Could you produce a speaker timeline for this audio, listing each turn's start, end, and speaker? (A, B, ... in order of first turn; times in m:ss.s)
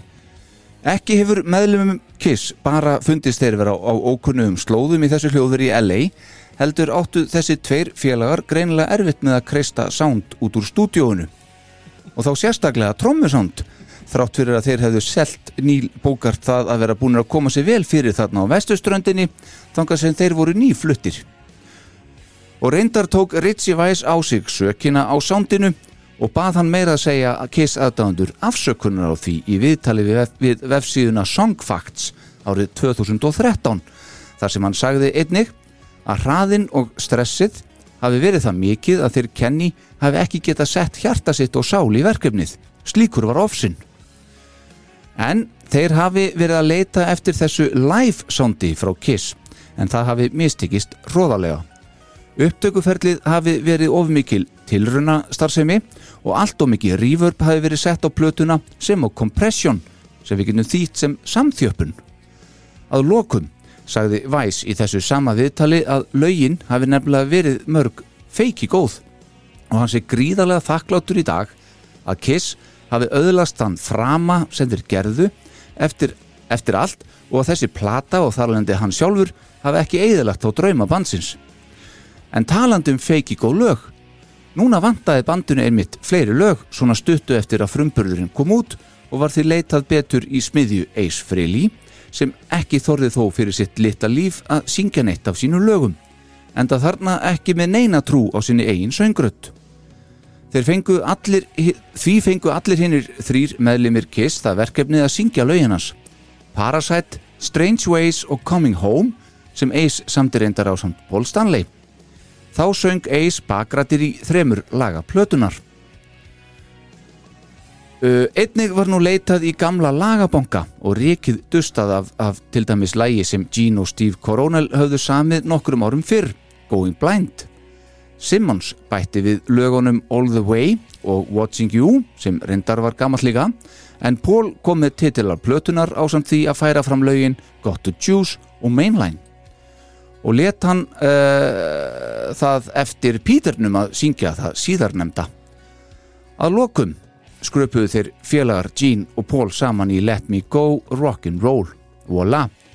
0:00.8-0:11.3 A
0:12.1-0:21.2 A
0:22.6-0:33.8 A
0:34.4-0:35.5 A
0:36.0-0:43.8 A
0:45.2-0:51.6 A
0:52.4-1:02.0 A
1:02.9-1:09.0 A
1:09.7-1:21.4 A
1:22.3-1:23.9 A
1:24.5-1:36.0 A
1:36.5-1:39.5 A
1:40.5-1:46.0 A
1:46.5-1:51.7 A
1:52.5-1:55.6 A
1:58.0-2:07.5 A
2:08.2-2:19.2 A
2:20.2-2:25.3 A
2:26.4-2:32.5 A